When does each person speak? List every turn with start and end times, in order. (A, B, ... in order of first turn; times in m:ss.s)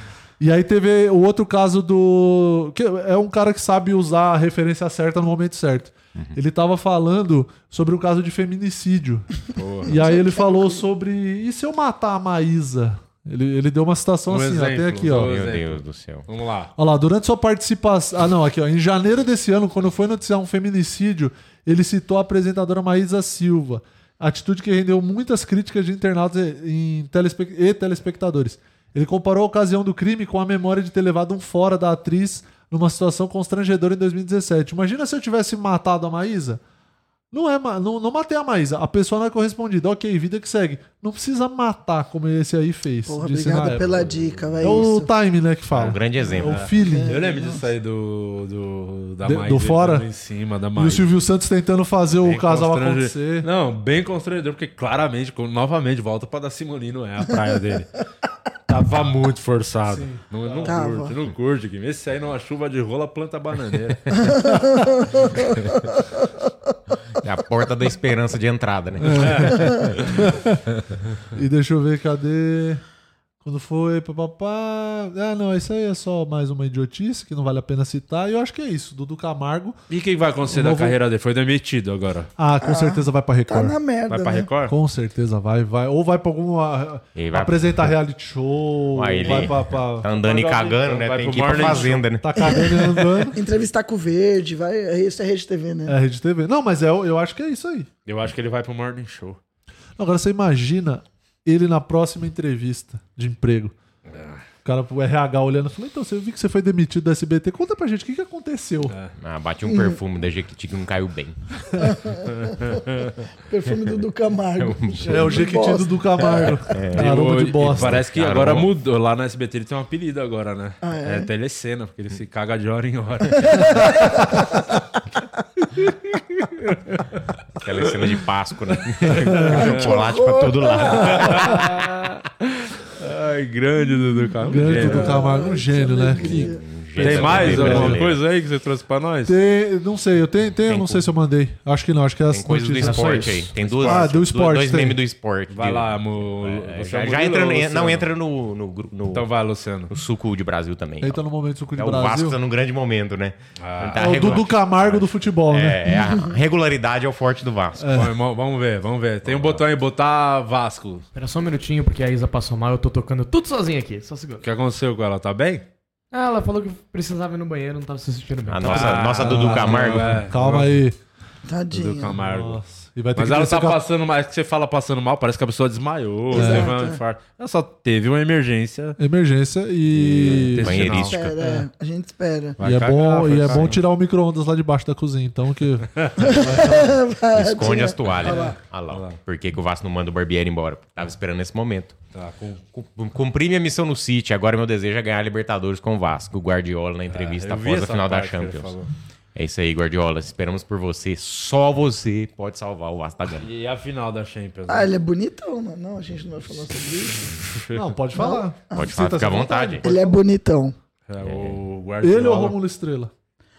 0:00.4-0:15.4 A
0:09.6-0:10.0 B
0:10.0-0:10.8 C
0:14.3-0:16.7 B
0:15.2-0:16.2 D
0:16.8-0:36.6 A
0:37.3-0:44.0 A
0:43.1-0:45.1 C
0:43.9-0:44.5 B
0:44.6-0:47.2 A
0:45.7-0:46.7 D
0:46.4-0:51.0 B
0:46.8-0:47.6 C
0:49.2-0:50.1 A
0:50.7-0:53.5 A
0:52.2-0:57.9 B
0:58.7-1:04.0 B
0:59.9-1:00.8 A
1:00.6-1:01.1 C
1:04.1-1:06.0 C
1:07.2-1:10.2 D
1:09.0-1:10.6 A
1:09.1-1:09.5 B
1:11.3-1:12.8 A
1:13.4-1:19.8 A
1:19.9-1:22.3 B
1:20.5-1:21.0 A
1:22.4-1:23.8 A
1:22.6-1:24.5 C
1:24.1-1:24.8 B
1:24.7-1:30.1 A
1:27.1-1:27.9 D
1:28.9-1:32.6 D
1:30.1-1:32.1 B
1:31.6-1:33.4 A
1:32.4-1:35.9 C
1:35.9-1:37.9 A
1:38.0-1:39.4 B
1:40.0-1:43.7 A
1:44.1-1:44.4 B
1:44.6-1:48.9 A
1:48.9-1:49.1 B
1:49.2-1:51.4 D
1:49.7-1:49.9 C
1:51.8-1:52.8 C
1:52.7-1:53.1 B
1:53.5-1:56.5 C
1:54.6-1:55.4 D
1:55.0-1:58.0 A
1:56.7-1:58.7 D
1:56.9-2:04.1 B
2:00.8-2:01.3 C
2:03.5-2:04.6 C
2:05.8-2:07.0 B
2:07.6-2:11.9 D
2:09.1-2:09.9 B
2:09.2-2:09.5 A
2:09.5-2:11.4 C
2:11.1-2:15.2 B
2:14.4-2:18.0 A
2:14.6-2:16.6 C
2:16.1-2:18.2 D
2:17.0-2:19.4 B
2:19.2-2:25.0 A
2:20.6-2:21.1 D
2:22.3-2:29.3 D
2:22.8-2:24.1 B
2:25.5-2:28.1 B
2:29.1-2:29.9 B
2:29.9-2:31.2 D
2:31.0-2:32.4 A
2:31.7-2:37.9 D
2:33.6-2:34.5 B
2:34.0-2:35.9 A
2:37.8-2:38.1 A
2:37.9-2:41.0 B
2:39.2-2:39.6 D
2:41.1-2:44.4 E
2:44.4-2:45.6 B
2:46.1-2:49.5 E
2:48.5-2:50.2 D
2:48.6-2:50.8 B
2:49.2-2:51.0 A
2:51.4-2:52.2 C
2:51.7-2:59.0 B
2:52.2-2:53.8 A
2:56.3-2:57.0 C
2:56.3-2:56.7 A
2:59.0-3:01.6 A
2:59.9-3:01.1 B
3:00.3-3:01.4 D
3:01.0-3:02.6 C
3:02.6-3:03.8 B
3:02.6-3:06.8 A
3:06.0-3:06.4 B
3:06.2-3:08.5 C
3:07.3-3:12.0 D
3:08.9-3:09.2 B
3:12.1-3:12.6 B
3:12.7-3:18.7 D
3:17.1-3:18.9 B
3:19.3-3:23.5 D
3:23.4-3:24.9 B
3:24.7-3:27.3 C
3:27.5-3:27.8 B
3:27.7-3:30.2 A
3:28.1-3:28.9 C
3:28.7-3:29.8 D
3:29.8-3:30.7 C
3:31.1-3:32.6 B
3:31.2-3:31.6 D
3:32.0-3:33.1 A